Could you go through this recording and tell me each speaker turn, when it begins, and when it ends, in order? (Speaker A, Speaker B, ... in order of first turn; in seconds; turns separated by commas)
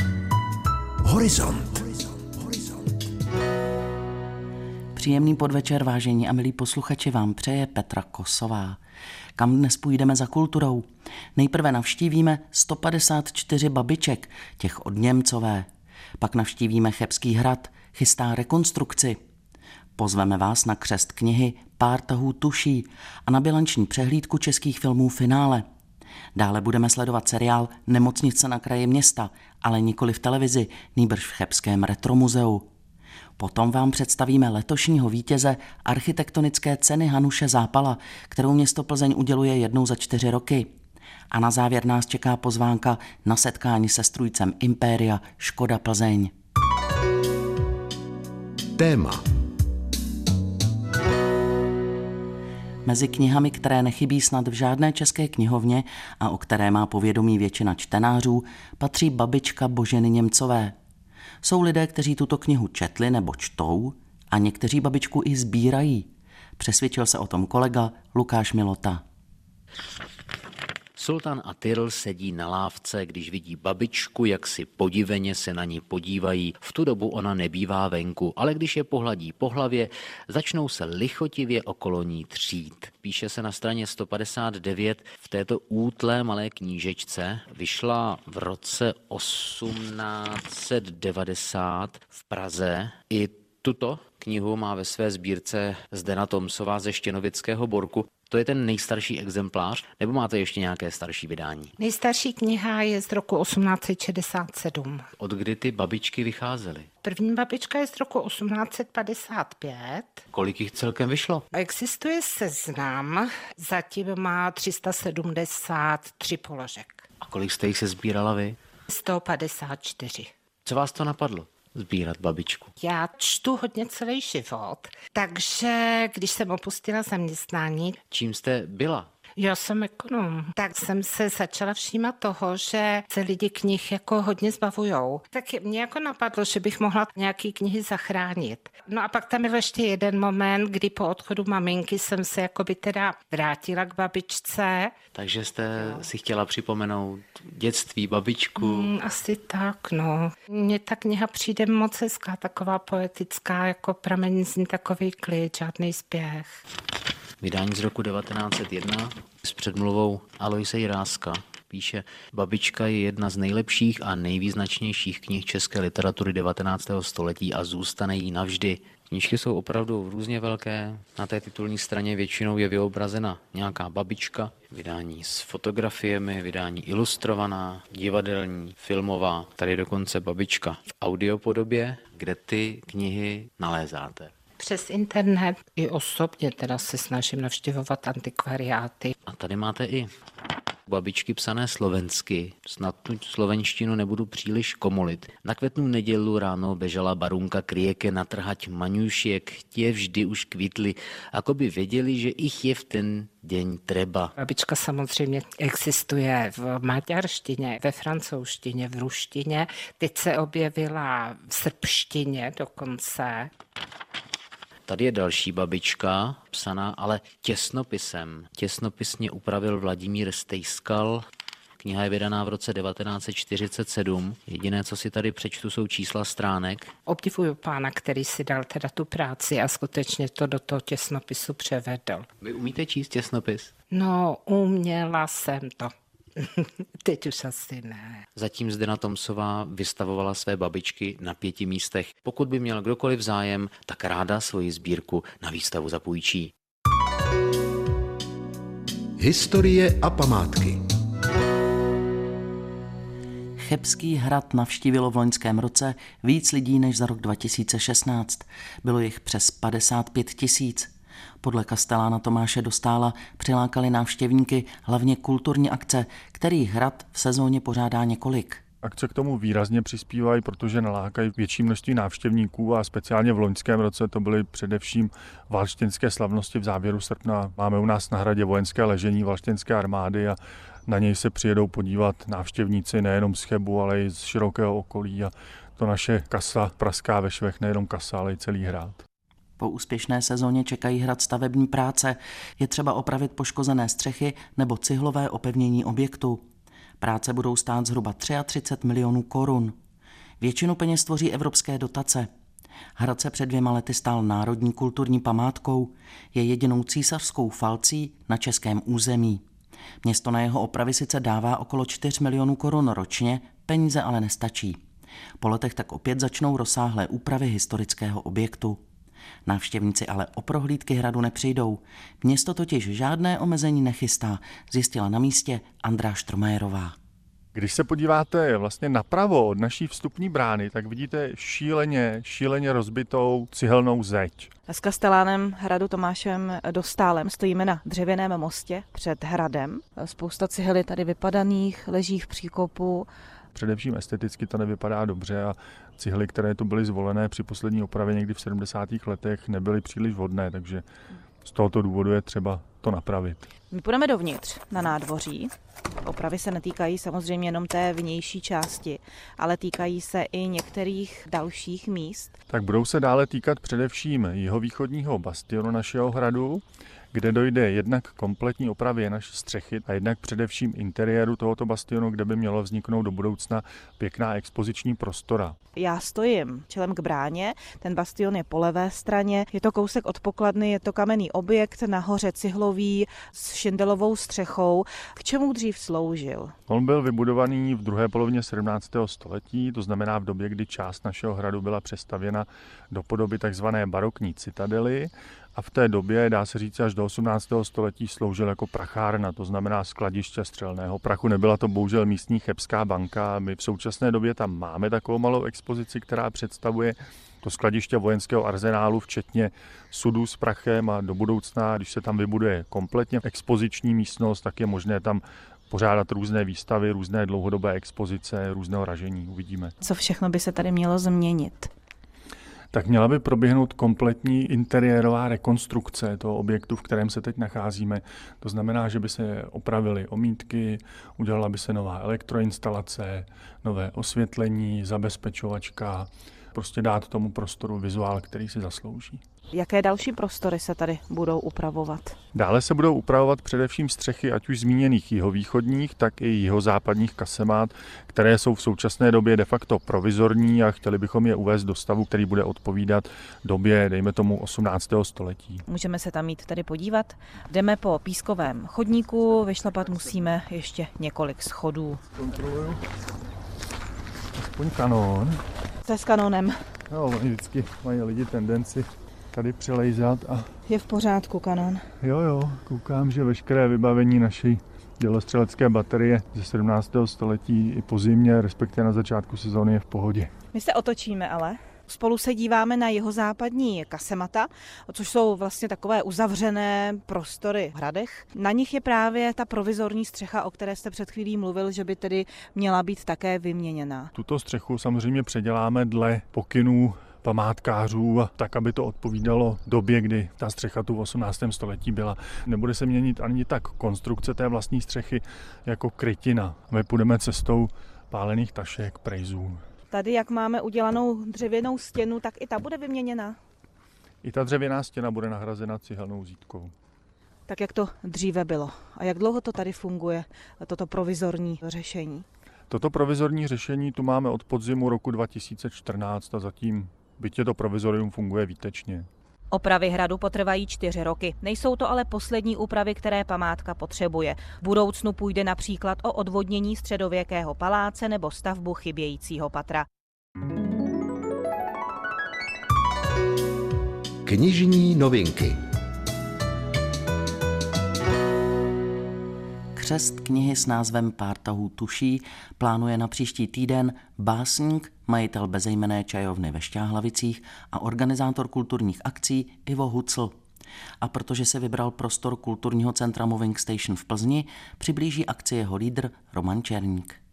Speaker A: 1.0-2.7, Speaker B: 4.9-8.8, Speaker B: 9.4-15.7, Speaker B: 16.2-19.2, Speaker B: 20.0-25.7, Speaker B: 26.3-32.7, Speaker B: 33.4-40.7, Speaker B: 41.3-46.3, Speaker A: 48.8-49.2, Speaker B: 52.8-60.8, Speaker B: 61.4-69.0, Speaker C: 71.0-101.7, Speaker D: 101.8-105.0, Speaker C: 105.2-106.9, Speaker D: 107.0-110.2, Speaker C: 110.3-111.5, Speaker D: 111.5-117.0, Speaker C: 117.2-118.6, Speaker D: 118.9-120.3, Speaker C: 120.7-122.7, Speaker D: 122.8-128.0, Speaker C: 128.1-129.1, Speaker D: 129.3-144.9, Speaker C: 145.1-148.9, Speaker D: 148.6-156.6, Speaker C: 157.4-184.3, Speaker D: 184.6-189.1, Speaker C: 189.2-190.1, Speaker C: 190.9-204.3, Speaker D: 204.4-213.5, Speaker C: 214.9-221.2, Speaker C: 221.8-226.9, Speaker D: 227.0-232.3, Speaker C: 232.4-233.7, Speaker D: 233.9-238.2, Speaker C: 238.3-246.5, Speaker A: 249.2-250.8, Speaker B: 253.6-260.9, Speaker B: 261.4-268.6, Speaker E: 268.8-289.0, Speaker B: 289.6-296.4, Speaker B: 297.0-299.8, Speaker B: 300.4-302.3, Speaker B: 302.9-309.4, Speaker B: 310.0-314.8, Speaker B: 315.4-318.8, Speaker B: 319.4-326.9, Speaker E: 327.5-334.5, Speaker F: 334.7-343.1, Speaker E: 343.5-350.8, Speaker E: 351.4-353.5, Speaker F: 353.7-355.5, Speaker F: 356.0-362.3, Speaker E: 362.5-375.6, Speaker F: 375.8-386.5, Speaker E: 386.7-419.7, Speaker F: 419.8-421.7, Speaker E: 422.7-439.2, Speaker F: 439.5-442.2, Speaker E: 442.3-455.6, Speaker F: 455.7-462.0, Speaker E: 462.1-462.8, Speaker E: 464.4-465.4, Speaker F: 465.9-466.6, Speaker E: 466.9-470.5, Speaker F: 470.7-471.8, Speaker E: 472.0-480.3, Speaker F: 480.5-494.1, Speaker E: 494.1-509.6, Speaker F: 509.9-513.4, Speaker E: 514.2-516.7, Speaker F: 517.5-522.2, Speaker E: 522.7-529.1, Speaker F: 529.5-539.9, Speaker A: 544.2-545.6, Speaker B: 549.8-560.4, Speaker B: 561.0-567.2